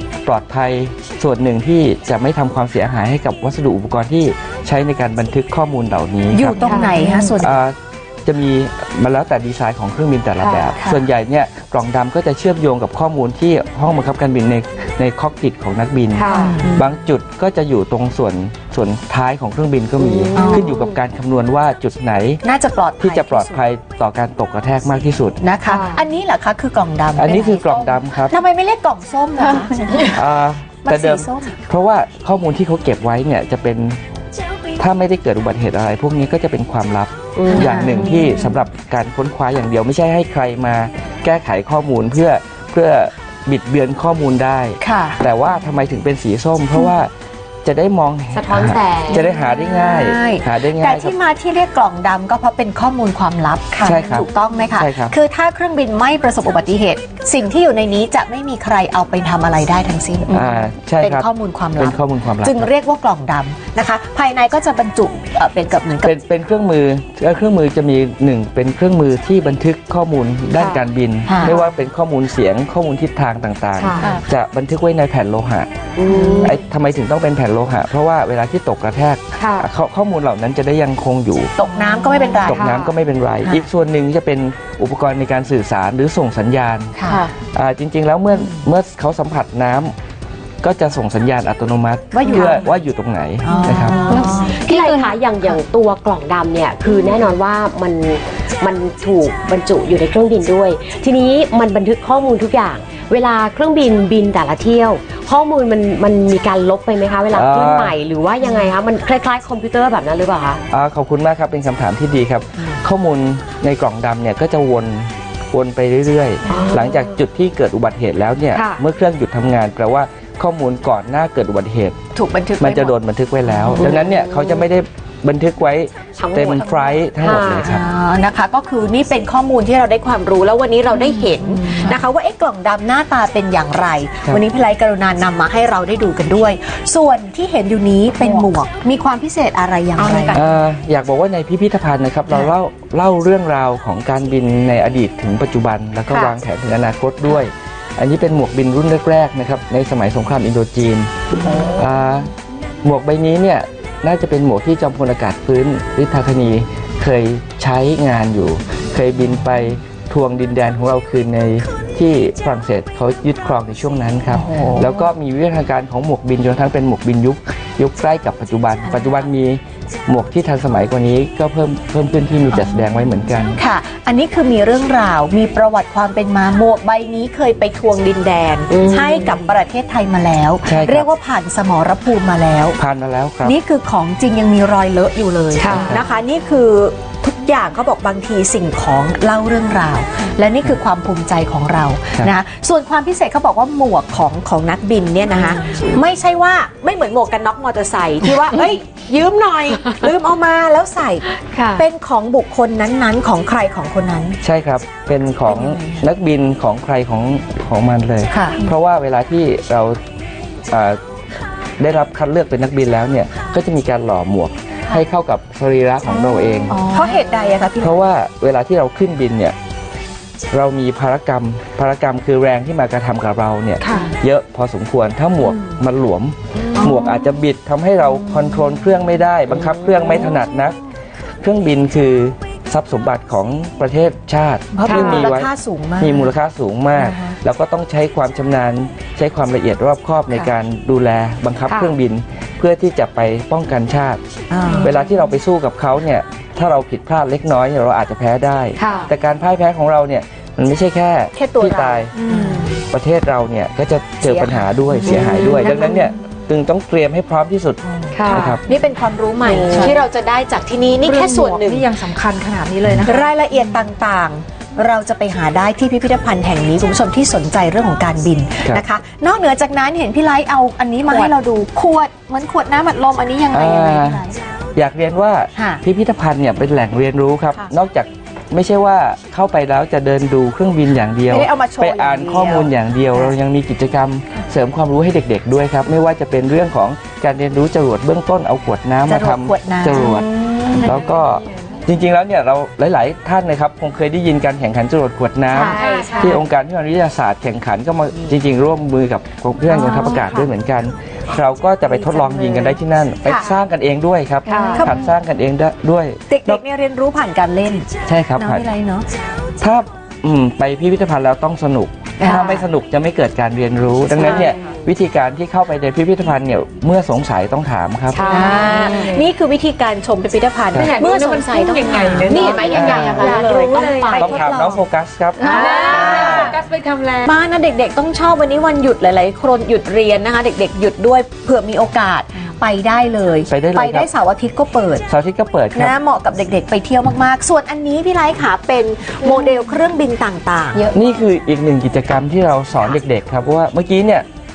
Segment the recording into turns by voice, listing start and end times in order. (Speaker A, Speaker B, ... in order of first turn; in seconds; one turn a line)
Speaker A: 0.2-6.8
Speaker B: 6.3-7.5
Speaker C: 6.7-7.0
Speaker A: 7.4-22.4
Speaker C: 16.1-16.8
Speaker D: 16.2-16.6
Speaker B: 16.4-16.7
Speaker C: 20.0-21.0
Speaker B: 20.4-20.7
Speaker B: 22.4-23.6
Speaker A: 23.0-25.4
Speaker B: 25.4-30.2
Speaker C: 25.7-26.1
Speaker A: 27.1-28.4
Speaker A: 30.0-34.0
Speaker B: 30.9-31.6
Speaker A: 34.8-47.1
Speaker C: 37.4-38.6
Speaker B: 37.5-38.1
Speaker B: 44.8-45.2
Speaker A: 47.6-51.1
Speaker C: 48.3-49.4
Speaker B: 49.1-66.1
Speaker A: 53.8-55.1
Speaker A: 60.3-62.7
Speaker A: 66.0-75.7
Speaker B: 71.3-71.6
Speaker C: 71.4-71.7
Speaker C: 73.8-74.2
Speaker C: 76.0-76.6
Speaker B: 76.1-76.5
Speaker A: 76.4-81.5
Speaker C: 79.4-79.7
Speaker B: 81.6-82.8
Speaker A: 82.5-87.0
Speaker C: 82.5-82.9
Speaker B: 87.0-87.3
Speaker A: 87.5-89.9
Speaker A: 90.6-94.2
Speaker B: 92.1-92.7
Speaker B: 93.4-95.2
Speaker C: 93.6-110.6
Speaker A: 107.3-108.0
Speaker A: 110.7-122.0
Speaker C: 116.5-117.2
Speaker C: 118.5-118.8
Speaker B: 122.2-123.0
Speaker A: 122.6-127.8
Speaker B: 123.6-123.9
Speaker C: 123.7-124.7
Speaker C: 126.2-127.7
Speaker B: 127.7-140.4
Speaker A: 140.3-151.1
Speaker B: 146.1-146.3
Speaker B: 151.4-151.8
Speaker A: 151.7-152.3
Speaker A: 152.8-173.6
Speaker B: 164.3-165.0
Speaker B: 173.6-182.8
Speaker C: 178.7-179.4
Speaker A: 180.7-181.1
Speaker A: 182.8-183.6
Speaker B: 183.4-201.2
Speaker D: 185.6-185.9
Speaker A: 185.7-186.0
Speaker C: 201.5-201.8
Speaker B: 201.8-204.4
Speaker A: 204.4-210.0
Speaker B: 205.5-206.1
Speaker B: 208.3-208.6
Speaker A: 210.7-211.0
Speaker A: 211.8-216.8
Speaker E: 216.2-217.7
Speaker B: 216.9-218.1
Speaker A: 217.8-219.5
Speaker A: 220.5-230.8
Speaker E: 223.8-224.2
Speaker E: 226.7-227.1
Speaker C: 229.5-230.1
Speaker A: 231.4-244.2
Speaker B: 234.7-236.3
Speaker C: 234.9-235.2
Speaker B: 237.0-237.3
Speaker C: 241.7-241.9
Speaker B: 244.5-245.0
Speaker A: 244.8-252.1
Speaker C: 248.8-249.1
Speaker B: 251.4-252.6
Speaker E: 252.1-252.8
Speaker A: 252.9-258.6
Speaker B: 254.2-256.0
Speaker C: 255.1-256.0
Speaker D: 258.1-258.5
Speaker C: 258.2-258.5
Speaker E: 258.3-260.1
Speaker B: 258.7-261.9
Speaker E: 261.0-263.3
Speaker B: 263.0-274.4
Speaker A: 273.5-274.2
Speaker A: 274.8-306.6
Speaker B: 275.6-275.8
Speaker B: 281.3-283.3
Speaker B: 289.1-290.9
Speaker B: 295.5-296.1
Speaker D: 295.6-296.4
Speaker E: 295.7-296.4
Speaker B: 299.7-300.5
Speaker B: 301.8-303.5
Speaker D: 304.5-304.8
Speaker B: 304.8-305.0
Speaker B: 306.3-309.1
Speaker A: 308.1-308.7
Speaker A: 309.6-318.3
Speaker B: 312.2-312.7
Speaker C: 314.2-314.8
Speaker B: 314.2-314.5
Speaker D: 318.1-319.1
Speaker C: 318.1-319.1
Speaker B: 318.3-324.8
Speaker E: 320.8-324.4
Speaker C: 321.1-324.1
Speaker A: 322.7-323.3
Speaker A: 324.1-326.5
Speaker D: 325.4-327.3
Speaker B: 325.4-326.6
Speaker B: 327.2-335.0
Speaker A: 333.5-334.1
Speaker A: 335.1-335.9
Speaker B: 335.7-340.9
Speaker A: 340.9-344.2